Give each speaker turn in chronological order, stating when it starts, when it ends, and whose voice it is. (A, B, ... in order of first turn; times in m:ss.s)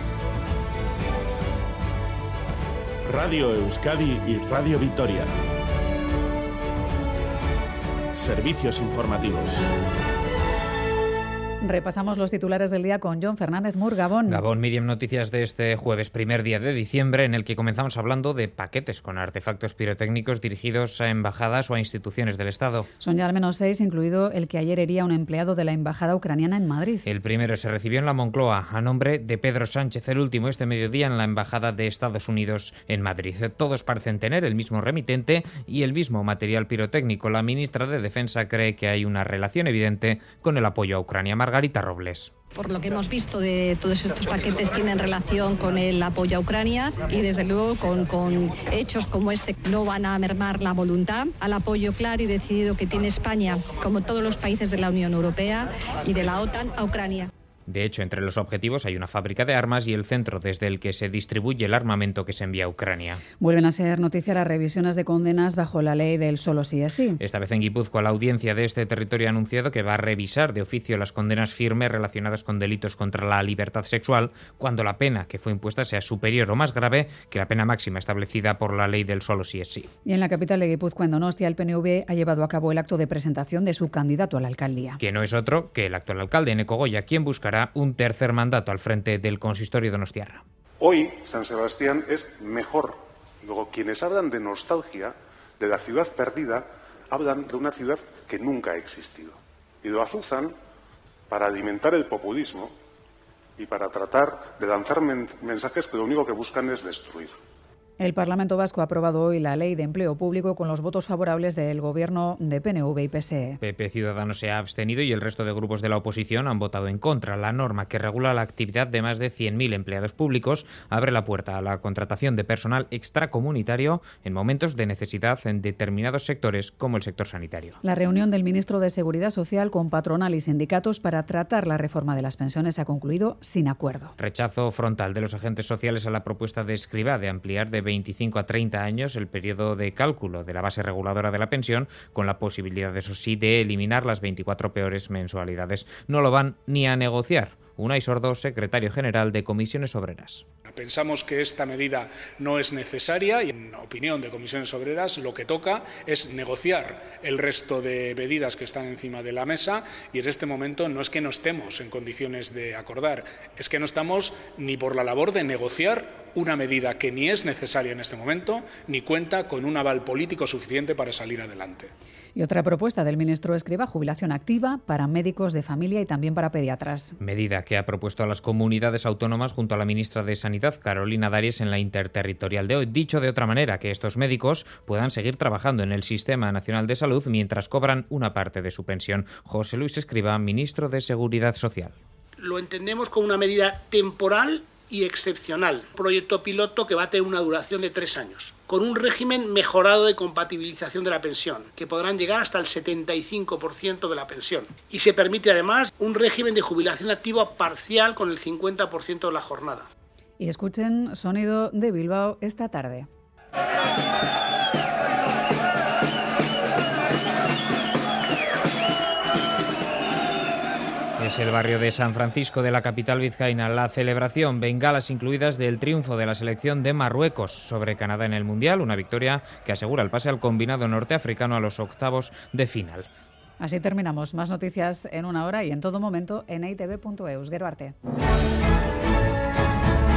0:03.0-0:05.3 A
0:08.1-0:09.6 A
0:11.6-0:14.4 B
0:14.3-0:22.9 C
0:23.0-0:27.0 B
0:27.0-0:42.3 C
0:42.5-0:57.3 D
0:57.7-1:03.2 C
1:03.4-1:07.2 B
1:07.2-1:19.9 C
1:20.0-1:25.0 B
1:25.0-1:30.4 C
1:30.8-1:40.5 E
1:41.3-1:42.7 E
1:43.6-1:47.3 E
1:48.0-1:53.6 B
1:53.6-2:07.8 C
2:07.8-2:14.1 B
2:14.2-2:30.4 C
2:30.7-2:51.9 F
2:52.3-2:57.2 B
2:57.2-3:11.9 C
3:12.4-3:29.9 G
3:30.4-3:33.1 B
3:41.2-3:53.1 C
3:53.6-3:57.9 B